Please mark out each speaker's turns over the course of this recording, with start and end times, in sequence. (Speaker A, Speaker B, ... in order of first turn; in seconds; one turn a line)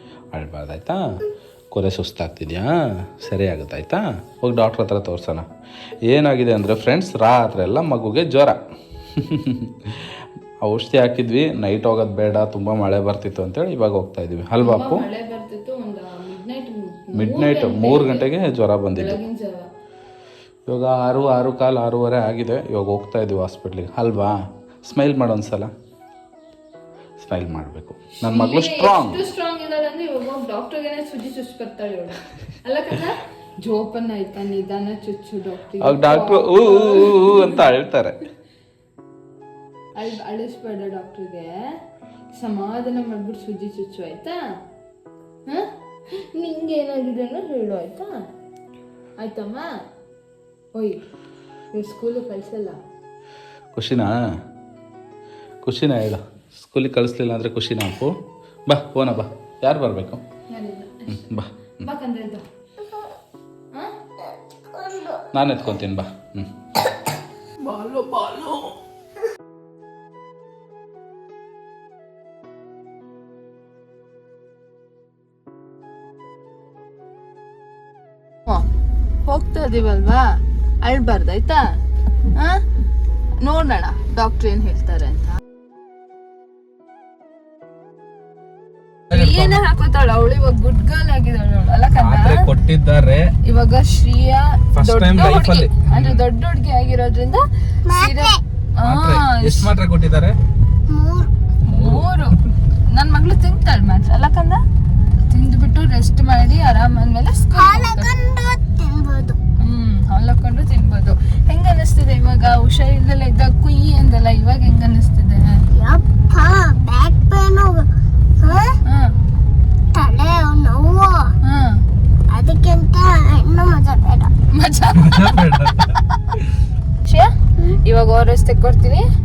Speaker A: 0.3-5.5
Speaker A: 6.1-8.6
Speaker A: 9.2-10.1
Speaker A: 10.6-15.1
Speaker B: 14.6-18.3
Speaker A: 17.1-19.2
Speaker B: 18.9-19.7
Speaker A: 20.7-25.7
Speaker A: 27.2-29.2
Speaker B: 28.2-37.6
Speaker A: 35.8-38.2
Speaker B: 40.0-41.5
Speaker B: 42.3-44.4
Speaker B: 46.3-48.2
Speaker B: 49.2-49.7
Speaker B: 50.8-51.0
Speaker B: 51.7-52.8
Speaker A: 53.8-54.1
Speaker A: 55.6-58.2
Speaker A: 58.7-60.2
Speaker B: 60.5-62.4
Speaker A: 61.1-61.9
Speaker C: 64.7-65.3
Speaker A: 65.3-66.5
Speaker A: 67.8-68.6
Speaker B: 79.2-81.7
Speaker B: 82.3-82.6
Speaker B: 83.4-85.4
Speaker B: 89.1-92.5
Speaker A: 92.0-93.3
Speaker B: 93.4-99.7
Speaker A: 94.8-96.2
Speaker C: 97.9-98.4
Speaker A: 98.8-100.3
Speaker C: 100.9-101.3
Speaker A: 101.6-102.1
Speaker B: 101.7-102.3
Speaker B: 102.9-104.6
Speaker B: 105.3-108.1
Speaker C: 107.5-109.4
Speaker B: 109.6-115.6
Speaker C: 115.7-117.9
Speaker C: 118.4-118.8
Speaker B: 118.8-119.1
Speaker C: 119.9-121.3
Speaker B: 121.4-121.8
Speaker C: 122.3-124.3
Speaker B: 124.5-125.6
Speaker A: 125.0-126.5
Speaker B: 127.0-127.3
Speaker B: 127.8-129.1